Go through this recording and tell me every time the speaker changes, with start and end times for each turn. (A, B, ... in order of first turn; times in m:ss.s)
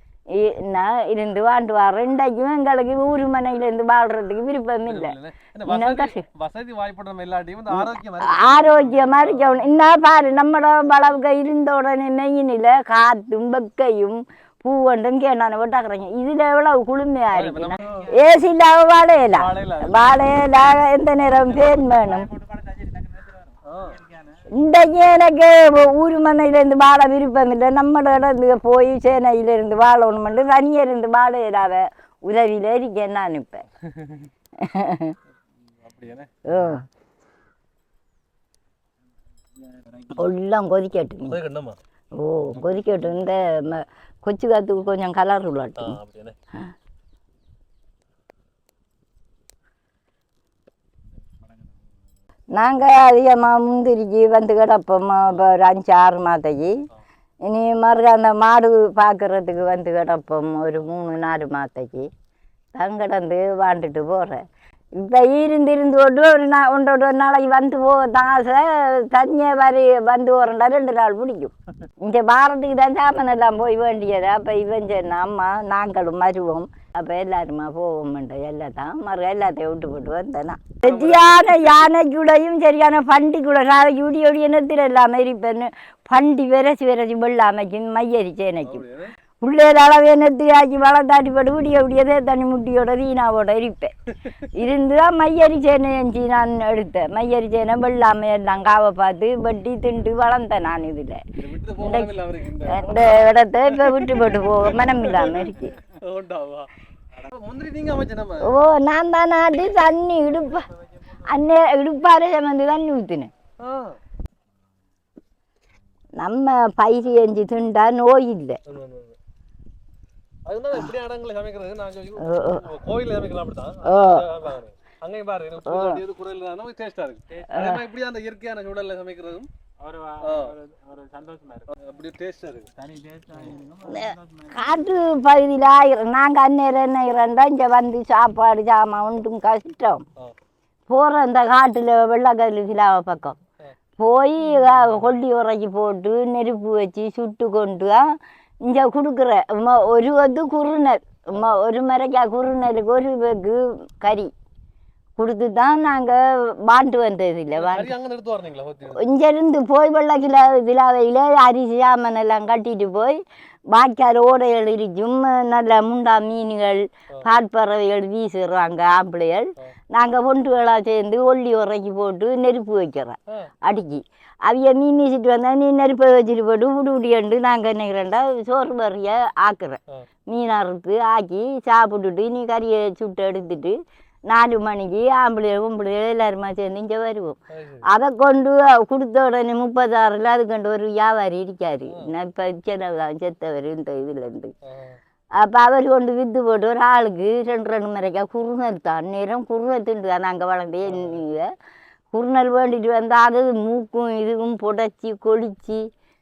0:00.3-0:05.1 A
0:04.8-0:09.7 B
0:05.7-0:06.2 A
0:07.7-0:22.3 A
0:17.3-0:18.1 B
0:17.8-0:18.3 C
0:19.3-0:20.2 B
0:21.4-0:24.5 C
0:23.6-0:24.0 B
0:24.5-0:33.6 A
0:33.8-0:34.3 B
0:34.6-0:35.1 A
0:35.8-0:36.7 B
0:36.5-0:36.8 A
0:39.6-0:40.3 C
0:40.2-0:41.4 A
0:41.3-0:41.8 B
0:42.2-0:46.0 A
0:45.8-0:46.4 B
0:51.2-0:52.0 C
0:52.5-0:56.8 A
0:57.4-1:02.1 A
1:02.7-1:28.8 A
1:20.8-1:21.8 B
1:28.6-1:29.1 B
1:29.4-1:33.9 A
1:34.5-1:41.2 A
1:41.4-1:46.7 B
1:41.8-1:42.1 A
1:42.7-1:45.8 A
1:47.3-1:48.5 B
1:48.4-1:50.7 A
1:51.2-1:53.3 A
1:53.6-1:54.0 B
1:56.2-1:58.6 A
1:58.6-1:59.2 B
2:00.5-2:09.5 B
2:02.2-2:02.6 A
2:03.8-2:04.3 A
2:05.6-2:06.0 A
2:07.5-2:07.8 A
2:09.8-2:11.8 C
2:10.2-2:10.5 B
2:11.7-2:12.7 B
2:12.7-2:15.0 C
2:13.9-2:20.0 A
2:20.9-2:23.4 A
2:24.0-2:34.3 A
2:35.2-2:37.9 A
2:37.6-2:39.1 B
2:39.0-3:03.8 A
3:04.3-3:14.5 A
3:07.5-3:07.8 B
3:14.6-3:15.0 B
3:15.4-3:21.5 A
3:20.8-3:21.2 B
3:22.1-3:25.9 A